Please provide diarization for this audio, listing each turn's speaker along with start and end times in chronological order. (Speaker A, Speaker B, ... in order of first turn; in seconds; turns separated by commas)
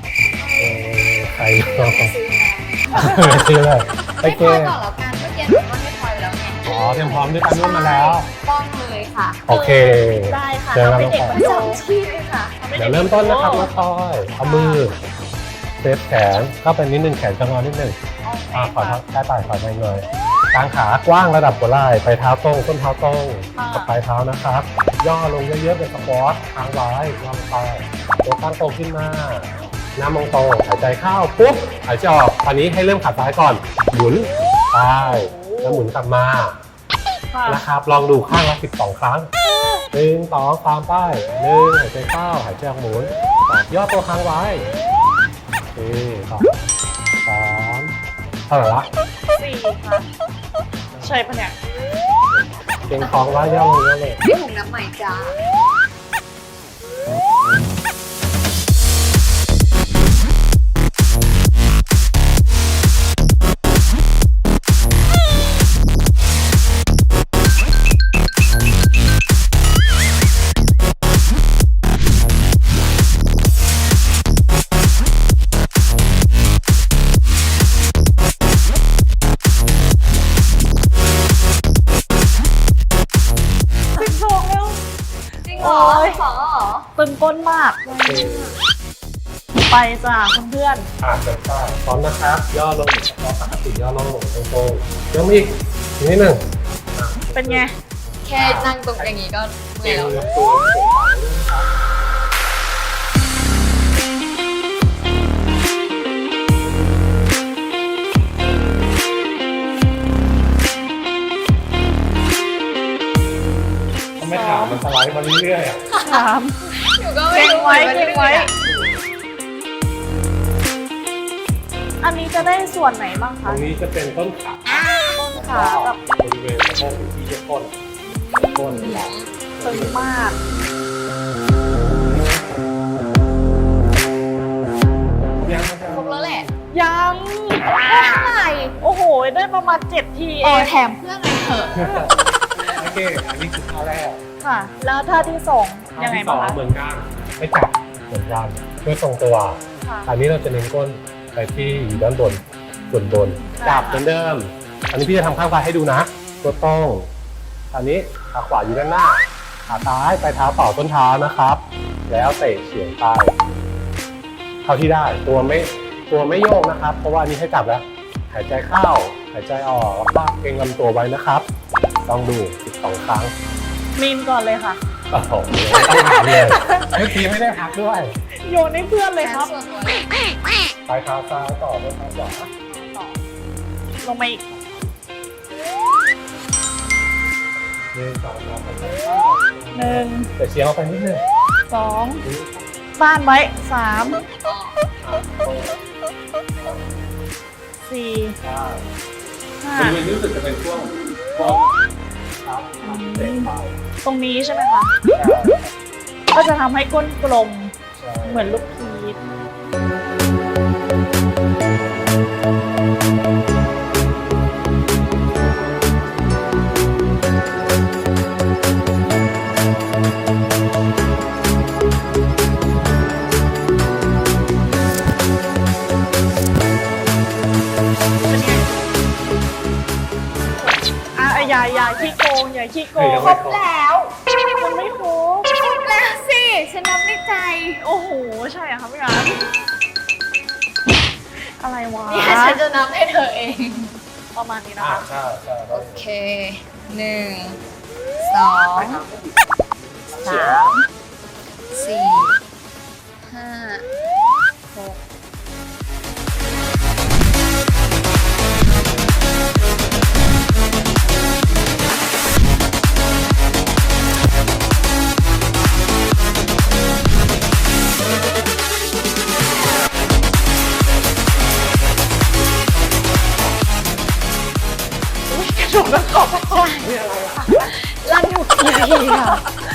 Speaker A: 0.4-0.8, Speaker B: 0.6-2.1, Speaker A: 1.6-3.6, Speaker B: 2.9-4.8, Speaker A: 4.2-9.5, Speaker B: 6.6-8.3, Speaker B: 9.5-11.4, Speaker C: 10.3-11.8, Speaker A: 11.2-12.7, Speaker C: 12.6-13.7, Speaker B: 12.8-14.9, Speaker C: 14.4-14.8, Speaker B: 15.8-18.0, Speaker C: 18.2-19.0, Speaker B: 18.5-36.5, Speaker C: 23.6-23.9, Speaker C: 35.0-35.9, Speaker C: 37.3-37.6, Speaker B: 37.5-39.3, Speaker C: 39.4-39.8, Speaker B: 39.9-44.7, Speaker B: 45.7-46.5, Speaker B: 47.2-47.9, Speaker B: 48.5-48.9, Speaker C: 49.3-50.1, Speaker B: 50.9-51.2, Speaker C: 51.0-51.5, Speaker B: 52.3-54.2, Speaker A: 53.0-53.3, Speaker A: 54.2-55.4, Speaker C: 83.9-84.8, Speaker A: 85.4-86.9, Speaker C: 85.5-86.2, Speaker C: 87.0-87.8, Speaker A: 87.8-88.6, Speaker B: 88.0-88.5, Speaker C: 89.6-90.9, Speaker B: 91.0-96.4, Speaker B: 96.9-97.7, Speaker C: 97.3-97.7, Speaker A: 98.2-100.2, Speaker B: 98.3-99.2, Speaker B: 99.8-101.7, Speaker B: 114.2-115.9, Speaker C: 114.2-114.8, Speaker A: 115.9-118.6, Speaker C: 116.0-116.6, Speaker C: 117.3-118.5, Speaker C: 122.0-123.7, Speaker B: 123.4-127.7, Speaker C: 125.0-126.0, Speaker A: 128.1-129.3, Speaker B: 128.5-130.3, Speaker C: 129.6-130.4, Speaker B: 135.4-136.5, Speaker A: 135.9-136.5, Speaker C: 136.7-138.1, Speaker A: 137.9-138.7, Speaker C: 138.8-140.8, Speaker A: 140.4-142.1, Speaker B: 141.7-144.2, Speaker C: 144.4-146.6, Speaker B: 145.1-145.3, Speaker B: 145.9-157.1, Speaker C: 149.8-150.1, Speaker C: 152.8-154.1, Speaker B: 157.7-163.3, Speaker B: 164.6-171.4, Speaker B: 172.0-173.3, Speaker C: 173.9-174.8, Speaker B: 175.1-178.1, Speaker C: 175.7-177.1, Speaker C: 178.4-179.5, Speaker A: 179.2-180.1, Speaker B: 180.9-182.5, Speaker C: 182.7-183.1, Speaker C: 184.0-184.4, Speaker B: 184.5-185.0, Speaker B: 187.9-191.2, Speaker C: 189.7-190.3, Speaker C: 191.7-192.2, Speaker B: 192.2-192.6, Speaker C: 193.0-194.2, Speaker A: 194.3-194.8, Speaker B: 195.0-196.0, Speaker B: 196.6-197.0, Speaker C: 197.8-198.3, Speaker B: 198.4-198.8, Speaker C: 199.6-200.0, Speaker B: 199.7-201.7, Speaker C: 201.4-201.7, Speaker B: 202.4-203.8, Speaker C: 202.8-203.5, Speaker C: 204.0-204.9, Speaker B: 205.1-205.7, Speaker C: 206.3-209.2, Speaker B: 207.9-208.6, Speaker C: 228.3-228.7, Speaker C: 231.1-234.0, Speaker B: 231.3-231.8, Speaker A: 231.5-232.1, Speaker B: 232.9-233.7, Speaker C: 234.6-235.5, Speaker A: 235.4-237.8, Speaker C: 237.8-239.4, Speaker C: 241.6-242.6, Speaker A: 242.1-243.9, Speaker C: 244.3-245.1, Speaker B: 244.8-246.1, Speaker A: 245.7-247.6, Speaker A: 248.2-249.0, Speaker B: 248.7-249.4, Speaker B: 250.1-250.7, Speaker A: 250.2-250.8, Speaker A: 251.7-252.4, Speaker A: 253.2-253.8, Speaker A: 254.7-255.0, Speaker C: 275.3-276.6, Speaker A: 275.9-276.9, Speaker B: 276.8-277.7, Speaker A: 277.6-279.4